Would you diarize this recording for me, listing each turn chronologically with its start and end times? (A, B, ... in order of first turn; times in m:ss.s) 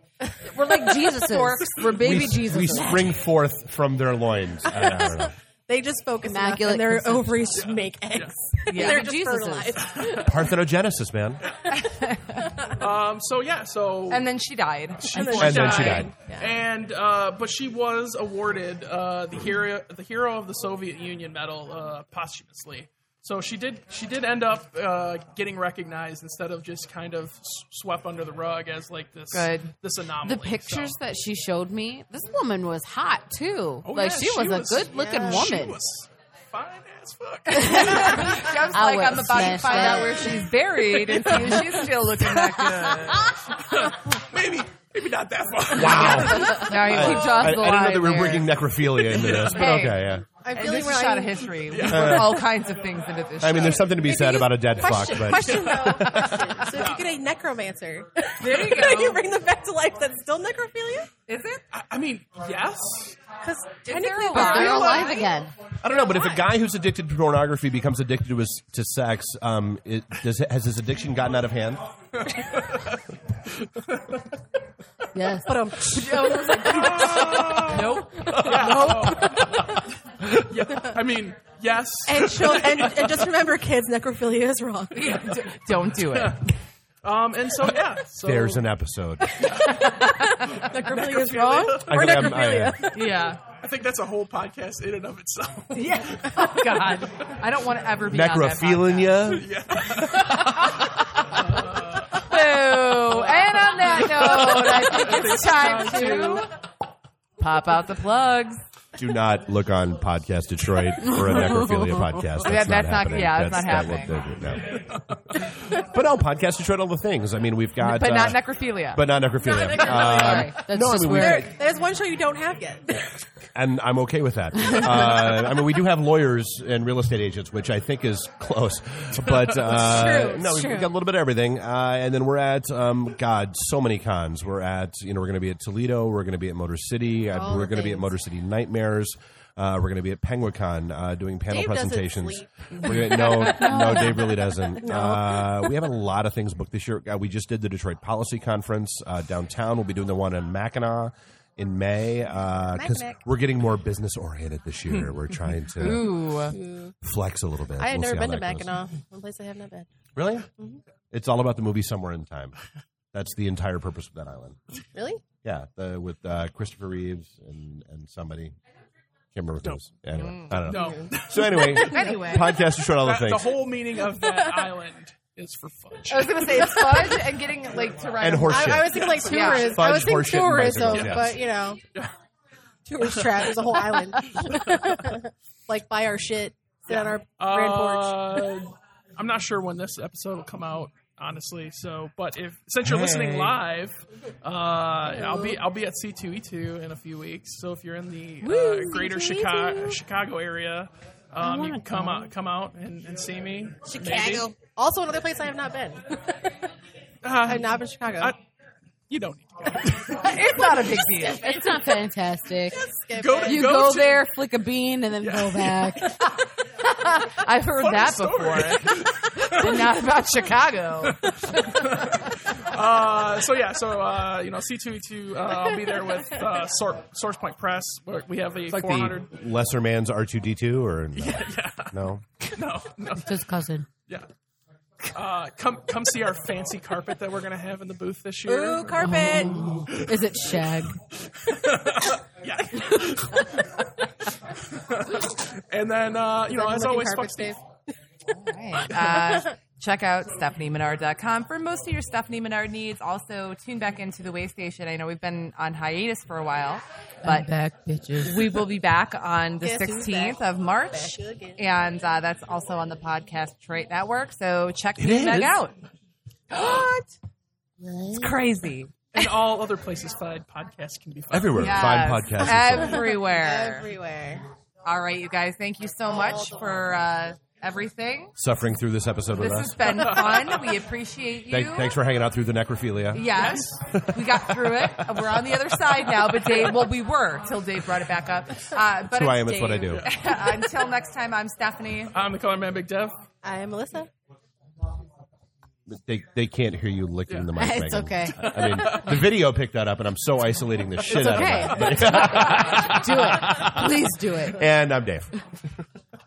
0:00.2-0:02.9 A
0:00.4-0:03.2 B
0:02.0-0:05.3 C
0:04.6-0:10.5 A
0:06.2-0:07.5 B
0:07.5-0:08.3 D
0:08.7-0:09.1 E
0:08.7-0:10.0 B
0:09.8-0:10.3 D
0:10.2-0:11.4 C
0:11.8-0:12.8 A
0:11.8-0:12.4 E
0:12.7-0:14.3 D
0:14.1-0:16.1 E
0:15.0-0:31.0 D
0:15.1-0:16.6 A
0:15.4-0:16.1 C
0:29.3-0:29.7 E
0:30.2-0:35.8 B
0:33.8-0:38.3 D
0:34.9-0:35.4 A
0:37.5-0:40.4 B
0:37.6-0:43.3 E
0:39.4-0:40.3 A
0:41.1-0:41.7 D
0:41.3-0:41.8 B
0:42.6-0:43.4 B
0:43.6-0:47.1 D
0:45.7-0:50.2 C
0:45.9-0:48.5 E
0:46.5-0:48.0 B
0:49.0-0:49.7 D
0:49.5-0:54.0 E
0:49.6-0:51.5 A
0:51.7-0:52.4 D
0:51.9-0:52.5 C
0:53.4-0:55.7 C
0:53.9-1:01.1 A
0:55.2-0:57.1 D
0:55.8-0:56.6 E
0:58.4-0:59.2 E
1:01.3-1:01.6 E
1:01.7-1:03.2 D
1:03.4-1:05.2 A
1:03.8-1:05.3 E
1:04.3-1:05.5 B
1:05.8-1:11.8 C
1:12.2-1:13.0 D
1:13.6-1:14.2 D
1:15.1-1:15.6 B
1:15.4-1:19.6 A
1:15.9-1:19.4 E
1:16.6-1:19.8 D
1:20.3-1:23.3 D
1:22.0-1:25.4 A
1:24.9-1:26.5 E
1:25.9-1:26.5 D
1:27.0-1:28.7 D
1:28.2-1:29.3 C
1:29.4-1:32.6 D
1:29.7-1:30.6 E
1:29.7-1:33.2 A
1:31.9-1:32.8 C
1:32.9-1:33.4 E
1:33.6-1:37.0 D
1:35.7-1:39.2 E
1:38.1-1:39.5 C
1:39.2-1:42.2 D
1:40.0-1:41.4 E
1:42.1-1:46.5 E
1:43.1-1:46.5 D
1:47.4-1:48.6 E
1:49.0-1:54.9 C
1:51.0-1:52.2 B
1:52.4-1:54.1 E
1:54.7-1:55.4 D
1:55.7-2:01.5 C
1:57.8-1:59.2 E
1:59.4-2:03.1 A
1:59.7-2:01.5 B
2:00.0-2:00.5 E
2:03.5-2:36.2 C
2:09.6-2:10.9 A
2:17.3-2:18.1 A
2:21.5-2:24.0 A
2:23.1-2:24.5 B
2:24.8-2:25.6 A
2:32.7-2:33.2 A
2:35.8-2:36.6 E
2:35.9-2:36.9 A
2:37.0-2:38.8 C
2:37.8-2:39.9 A
2:40.2-2:40.5 C
2:41.1-2:42.5 C
2:43.1-2:44.6 C
2:44.9-2:45.2 A
2:45.4-2:48.5 C
2:49.3-2:53.6 C
2:50.1-2:50.6 E
2:50.5-2:57.0 D
2:50.6-2:51.8 A
2:51.7-2:52.5 E
2:54.0-2:54.7 A
2:56.1-2:59.8 E
2:56.7-2:57.2 A
2:58.2-3:01.4 C
2:58.4-3:01.8 A
2:59.1-3:00.0 D
3:00.8-3:01.3 D
3:02.9-3:08.5 A
3:03.0-3:03.6 D
3:04.5-3:04.9 D
3:06.9-3:24.5 D
3:12.8-3:13.6 C
3:15.1-3:15.6 A
3:18.4-3:19.5 B
3:18.9-3:19.8 A
3:21.4-3:22.3 B
3:23.9-3:26.6 A
3:27.2-3:28.4 D
3:27.4-3:28.3 A
3:29.1-3:30.3 D
3:30.1-3:31.4 E
3:31.2-3:32.8 B
3:32.7-3:33.9 A
3:33.1-3:34.3 D
3:33.4-3:36.2 B
3:35.2-3:36.2 D
3:37.0-3:41.8 E
3:37.7-3:39.9 D
3:41.2-3:49.3 D
3:48.7-3:52.2 C
3:51.1-3:53.3 D
3:53.1-3:53.9 B
3:55.1-3:59.4 D
3:58.5-3:59.7 A
3:59.0-4:01.0 B
4:01.4-4:03.7 D
4:04.7-4:07.6 D
4:06.5-4:07.6 A
4:08.3-4:17.5 E
4:17.2-4:18.6 B
4:18.2-4:25.7 E
4:19.6-4:21.6 A
4:25.0-4:25.6 C
4:26.5-4:27.0 E
4:27.8-4:28.3 B
4:28.1-4:28.9 E
4:29.1-4:32.0 D
4:31.3-4:33.1 C
4:31.5-4:33.9 E
4:32.6-4:34.4 A
4:34.8-4:38.3 E
4:36.0-4:37.0 A
4:38.4-4:40.1 C
4:39.4-4:41.9 E
4:40.0-4:40.2 D
4:41.5-4:44.2 C
4:43.1-4:52.2 E
4:49.0-4:50.1 C
4:49.9-4:50.1 D
4:52.1-4:53.2 D
4:53.4-4:54.1 A
4:55.9-5:03.9 C
4:57.5-4:58.5 B
4:58.4-4:59.2 D
5:01.0-5:04.6 B
5:04.5-5:05.3 C